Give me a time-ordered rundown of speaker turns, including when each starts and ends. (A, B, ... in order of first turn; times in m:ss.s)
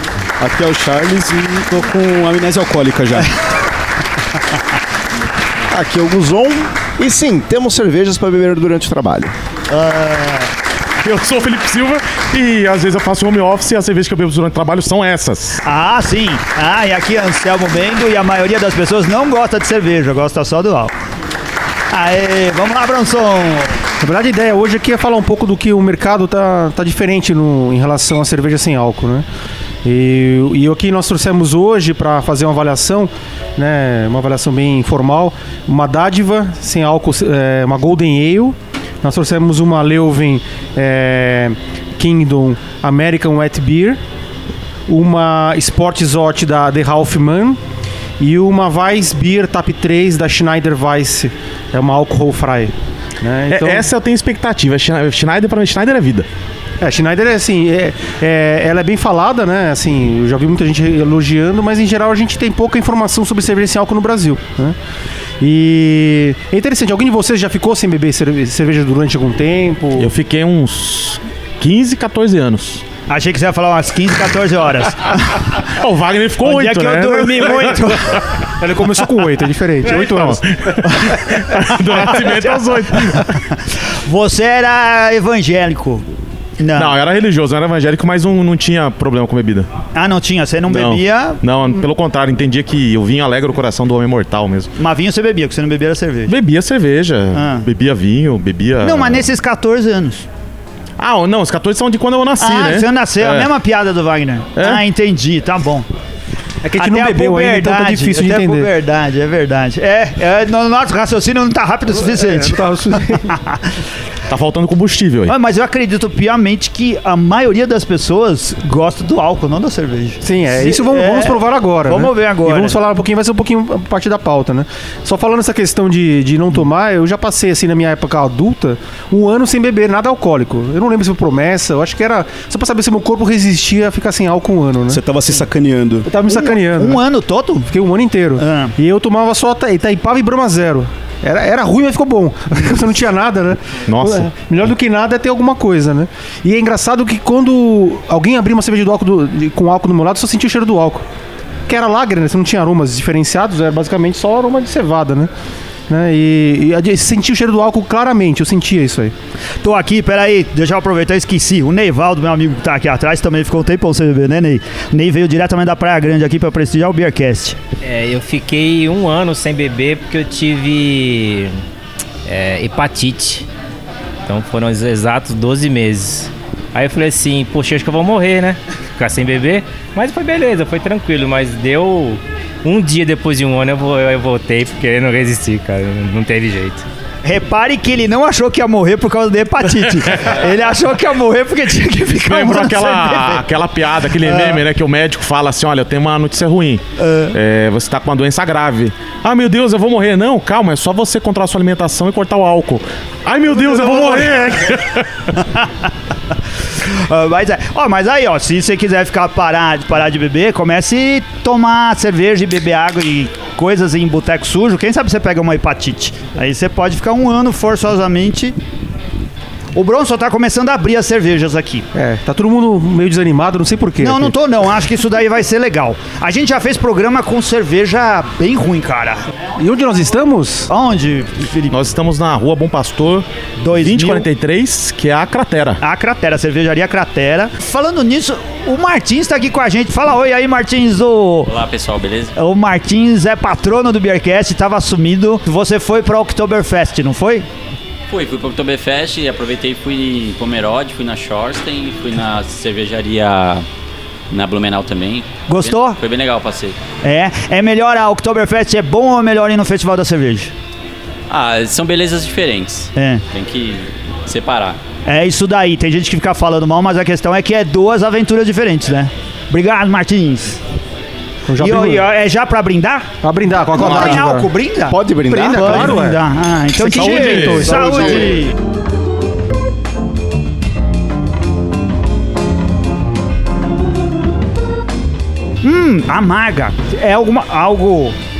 0:00.4-0:03.3 A
0:05.7-0:09.3 B
0:09.7-0:10.5 C
0:11.0-0:15.6 D
0:15.6-0:20.9 C
0:21.9-0:23.8 C
0:24.0-0:29.2 E
0:29.8-0:44.0 E
0:44.9-0:47.6 E
0:48.2-0:53.9 E
0:53.5-0:56.3 D
0:56.8-1:04.8 E
1:05.4-1:10.1 E
1:10.0-1:12.8 D
1:13.1-1:15.6 C
1:15.8-1:18.0 D
1:16.4-1:18.2 C
1:18.6-1:20.8 E
1:19.8-1:23.3 D
1:21.6-1:23.4 C
1:24.0-1:26.0 C
1:26.6-1:27.0 C
1:26.7-1:29.7 D
1:29.9-1:31.4 C
1:30.7-1:34.7 D
1:34.8-1:36.4 C
1:36.3-1:39.2 D
1:37.3-1:37.7 C
1:38.8-1:40.3 C
1:41.0-1:43.5 D
1:42.4-1:45.9 C
1:44.6-1:44.8 D
1:46.6-1:48.7 E
1:46.8-1:53.6 C
1:51.9-1:53.3 E
1:54.3-1:55.3 D
1:55.3-2:02.8 C
2:00.2-2:15.0 E
2:14.9-2:16.1 A
2:16.0-2:17.0 E
2:16.3-2:17.7 C
2:17.7-2:31.0 E
2:18.4-2:18.7 C
2:23.9-2:24.3 D
2:31.7-2:35.3 E
2:35.9-2:39.1 E
2:39.6-2:47.6 C
2:47.8-2:51.6 F
2:52.2-2:53.5 F
2:54.3-3:06.8 F
3:07.2-3:13.4 C
3:12.1-3:25.2 D
3:14.2-3:14.6 C
3:17.0-3:17.3 C
3:23.7-3:24.2 C
3:26.8-3:38.6 C
3:39.7-3:41.8 C
3:41.9-3:44.4 E
3:44.0-3:49.2 C
3:49.6-3:50.7 E
3:50.7-3:51.8 C
3:51.7-3:55.8 D
3:53.6-3:54.3 C
3:55.8-4:01.5 C
4:01.5-4:02.3 G
4:02.3-4:07.5 C
4:08.1-4:13.6 G
4:14.3-4:16.8 G
4:15.5-4:16.0 C
4:17.0-4:20.5 C
4:21.3-4:24.8 G
4:23.0-4:23.2 C
4:25.0-4:30.6 C
4:31.5-4:32.1 E
4:31.6-4:33.1 C
4:33.2-4:34.5 E
4:33.7-4:38.5 C
4:34.9-4:36.0 B
4:35.3-4:36.2 E
4:36.7-4:38.4 E
4:36.9-4:37.8 D
4:38.0-4:38.3 B
4:45.6-4:48.2 C